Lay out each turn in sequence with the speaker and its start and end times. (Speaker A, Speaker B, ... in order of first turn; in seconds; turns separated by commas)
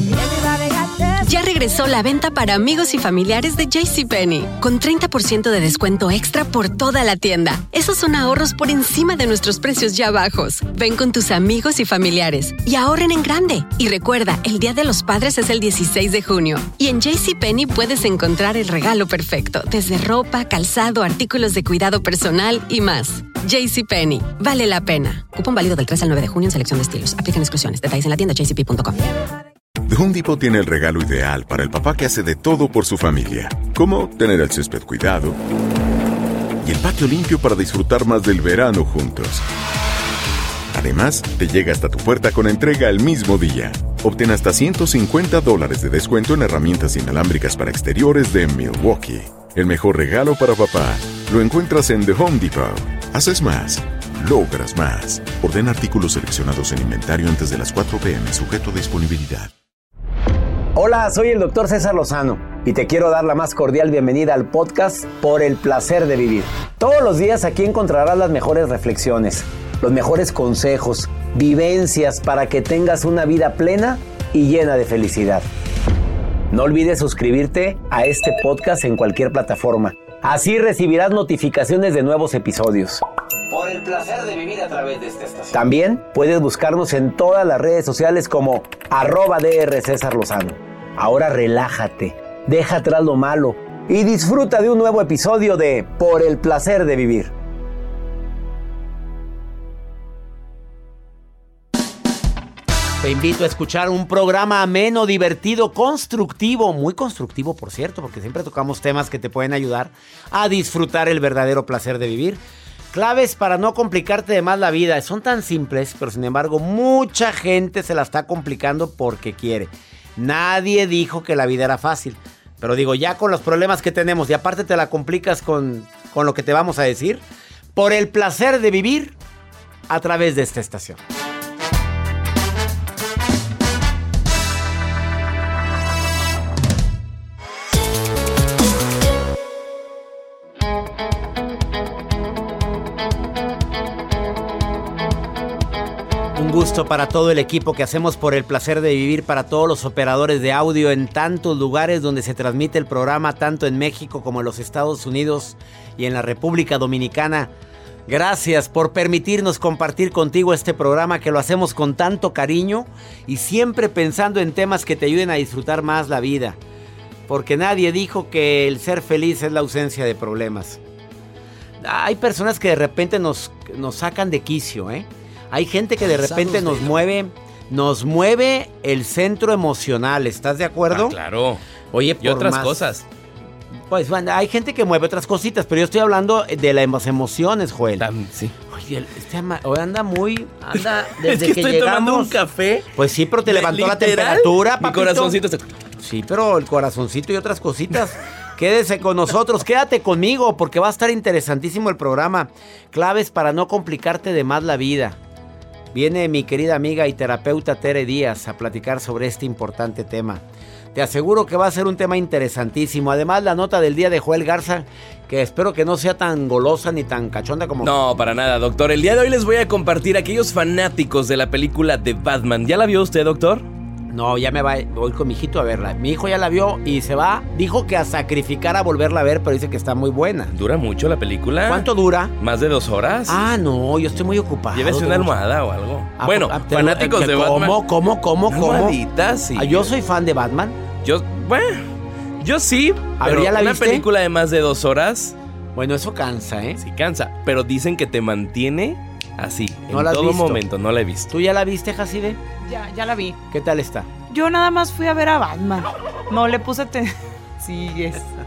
Speaker A: 1.2-29.0, Speaker B: 29.9-35.4, Speaker B: 36.6-39.4, Speaker B: 40.7-59.5, Speaker C: 60.7-75.5, Speaker C: 76.5-97.3, Speaker C: 103.0-112.4, Speaker C: 112.9-127.2, Speaker C: 127.7-129.1, Speaker C: 129.9-131.0, Speaker C: 146.3-157.5, Speaker C: 158.1-166.6, Speaker C: 167.3-170.8, Speaker C: 171.8-181.2, Speaker D: 176.0-176.9, Speaker D: 180.9-181.6, Speaker C: 181.9-182.9, Speaker D: 182.2-183.0, Speaker C: 183.9-188.1, Speaker D: 188.0-188.5, Speaker C: 188.7-192.3, Speaker D: 190.8-192.9, Speaker C: 192.9-195.3, Speaker D: 193.4-195.8, Speaker C: 196.0-205.2, Speaker C: 205.9-210.4, Speaker C: 210.9-217.9, Speaker D: 217.8-223.7, Speaker C: 224.1-230.5, Speaker D: 230.5-233.4, Speaker C: 231.7-232.3, Speaker C: 233.3-235.3, Speaker D: 234.7-237.8, Speaker C: 236.2-239.0, Speaker D: 238.5-239.9, Speaker C: 239.5-240.8, Speaker D: 241.0-245.3, Speaker C: 243.2-244.0, Speaker C: 245.8-246.8, Speaker D: 246.8-251.3, Speaker C: 249.9-250.6, Speaker C: 251.3-252.4, Speaker E: 252.6-253.4, Speaker C: 253.5-254.1, Speaker E: 254.3-258.3